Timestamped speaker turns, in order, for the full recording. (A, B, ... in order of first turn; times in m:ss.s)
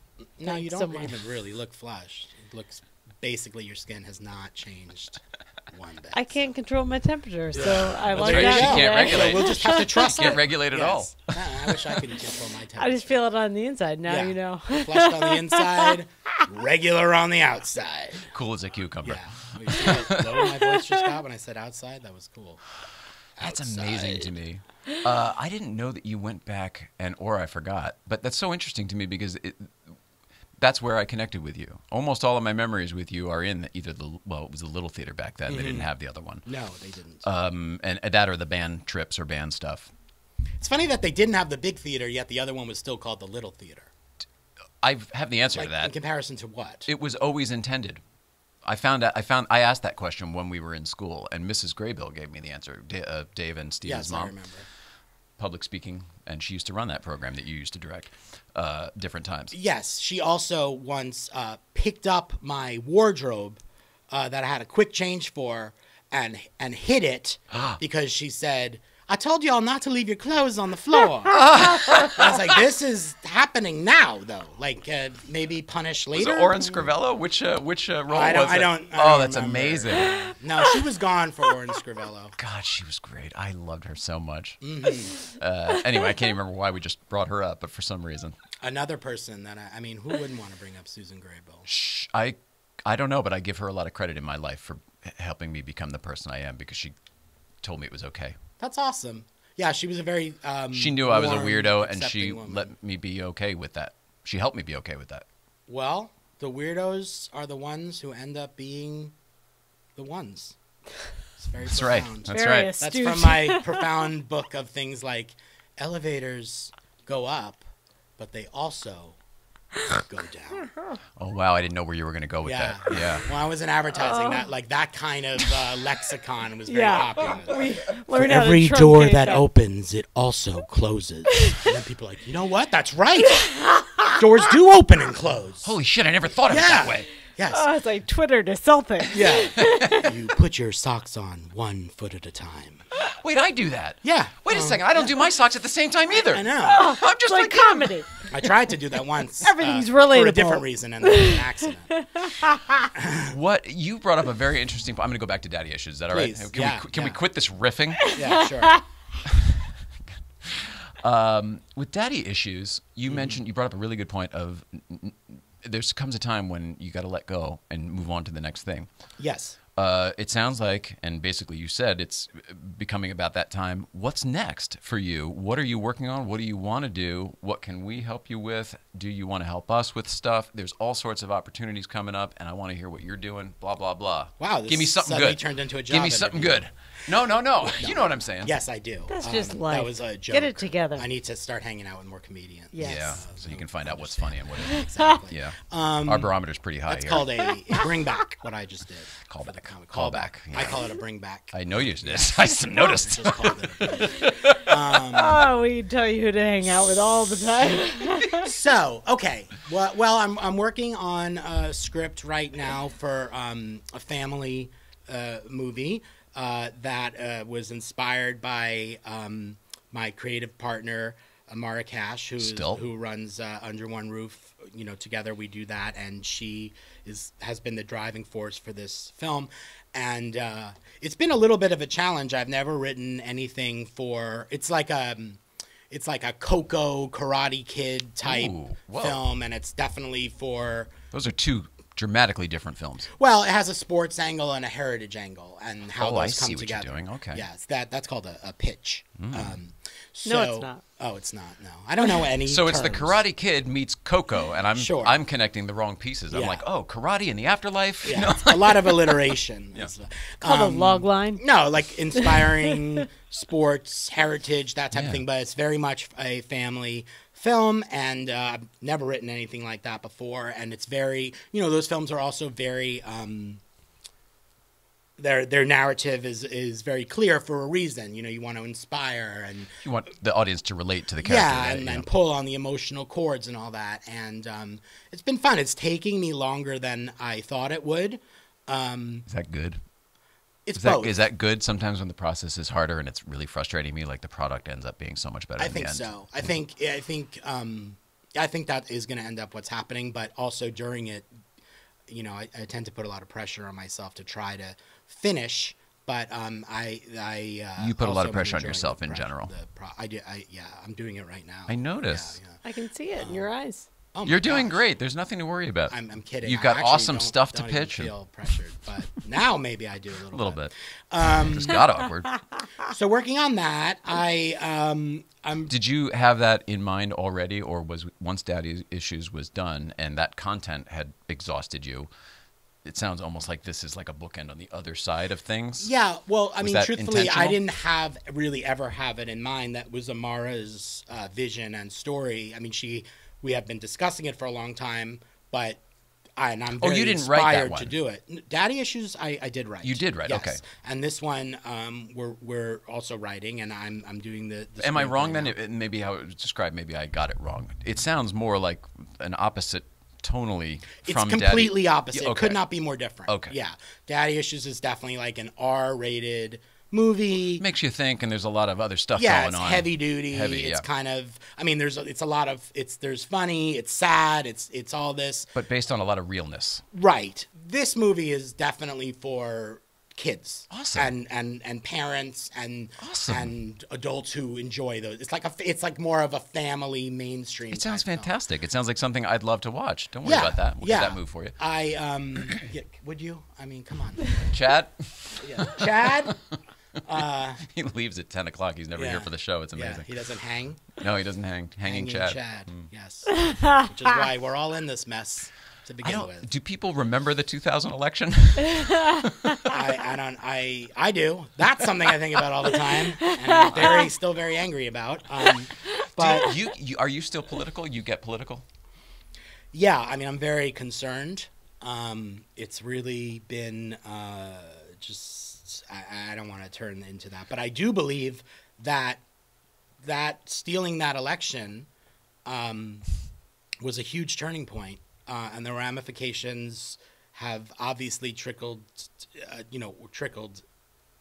0:00.4-0:05.2 A
0:00.4-0:01.2 B
0:05.7-0:06.5 A
0:06.1-0:10.3 B
0:07.5-0:13.2 A
0:07.6-0:11.9 C
0:12.8-0:15.9 B
0:14.1-0:18.3 A
0:18.3-0:20.1 C
0:19.0-0:22.6 A
0:23.4-0:24.3 A
0:23.4-0:30.0 C
0:30.6-0:36.5 C
0:35.5-0:35.9 A
0:36.5-0:37.2 A
0:37.2-0:39.9 C
0:40.6-0:43.9 A
0:44.8-0:46.0 C
0:45.6-0:46.9 A
0:46.9-0:48.0 C
0:48.6-0:54.4 C
0:53.9-0:54.7 A
0:55.4-0:59.5 C
0:59.5-1:16.8 A
1:07.5-1:07.8 C
1:11.3-1:12.4 C
1:16.1-1:20.4 C
1:18.1-1:22.4 A
1:22.4-1:24.6 C
1:24.6-1:25.2 A
1:25.4-1:28.4 C
1:28.6-1:31.7 A
1:31.7-1:37.0 C
1:37.6-1:38.4 C
1:38.6-1:42.7 A
1:40.7-1:45.3 C
1:45.7-1:49.1 A
1:50.0-1:50.6 A
1:51.4-1:59.2 A
1:51.6-1:52.8 C
1:52.3-1:53.7 B
2:00.0-2:00.7 A
2:01.2-2:03.3 C
2:02.4-2:13.5 A
2:04.0-2:04.5 B
2:06.7-2:09.5 B
2:13.4-2:14.2 B
2:14.0-2:15.7 A
2:15.6-2:17.1 C
2:16.5-2:17.7 A
2:17.5-2:20.1 B
2:19.1-2:22.8 A
2:23.1-2:28.0 C
2:24.0-2:25.2 A
2:26.2-2:26.9 A
2:26.6-2:28.3 B
2:28.3-2:31.9 A
2:29.4-2:31.4 B
2:31.9-2:32.8 B
2:33.0-2:33.3 A
2:33.3-2:38.2 C
2:36.1-2:37.2 A
2:38.0-2:38.8 B
2:38.1-2:38.8 A
2:39.3-2:39.7 C
2:40.4-2:48.9 C
2:43.1-2:43.4 A
2:49.2-2:49.6 A
2:49.8-3:08.6 C
3:04.4-3:06.7 A
3:07.7-3:16.3 A
3:09.1-3:11.1 B
3:12.7-3:13.2 B
3:12.8-3:17.4 C
3:16.9-3:25.4 A
3:19.2-3:20.8 C
3:21.5-3:24.8 C
3:25.1-3:28.5 B
3:28.3-4:01.0 A
3:42.4-3:42.8 C
3:58.2-3:59.2 C
4:01.1-4:03.1 C
4:03.1-4:13.2 A
4:06.0-4:07.4 C
4:09.2-4:09.6 C
4:10.3-4:10.8 B
4:12.5-4:19.9 C
4:14.8-4:15.2 A
4:16.3-4:16.6 A
4:18.0-4:33.6 A
4:20.4-4:21.4 B
4:22.2-4:22.5 B
4:24.9-4:25.2 C
4:35.2-4:39.8 A
4:39.8-4:42.1 C
4:41.2-4:49.3 A
4:49.3-4:49.8 C
4:50.7-4:51.1 A
4:50.8-4:56.1 C
4:55.6-5:01.3 A
5:02.1-5:12.6 A
5:07.8-5:09.5 C
5:11.7-5:12.4 C
5:12.6-5:13.9 B
5:13.2-5:13.5 A
5:14.1-5:14.7 A
5:14.2-5:18.1 C
5:15.9-5:21.9 A
5:20.3-5:20.7 C
5:21.2-5:22.4 C
5:22.8-5:25.7 A
5:25.7-5:32.1 C
5:32.8-5:35.9 C
5:35.8-5:45.8 A
5:36.6-5:37.6 C
5:46.4-5:55.5 A
5:46.8-5:48.0 C
5:49.8-5:50.6 C
5:54.8-6:02.6 C
6:01.0-6:07.6 A
6:03.3-6:03.6 C
6:07.6-6:10.9 C
6:09.2-6:15.5 A
6:15.6-6:16.8 C
6:16.9-6:28.3 A
6:20.7-6:21.1 C
6:23.0-6:23.5 C
6:27.7-6:31.6 C
6:30.2-6:34.4 A
6:34.5-6:36.4 C
6:35.4-6:36.4 A
6:37.1-6:37.6 A
6:37.6-6:40.2 C
6:39.0-6:40.9 A
6:41.0-6:42.9 C
6:41.8-6:46.4 A
6:43.4-6:43.8 B
6:46.0-6:49.6 C
6:48.9-6:49.2 B
6:49.7-6:56.6 A
6:53.5-6:53.8 B
6:56.1-6:58.6 C
6:59.7-7:09.2 A
7:10.0-7:11.9 A
7:12.4-7:13.0 A
7:13.8-7:20.6 A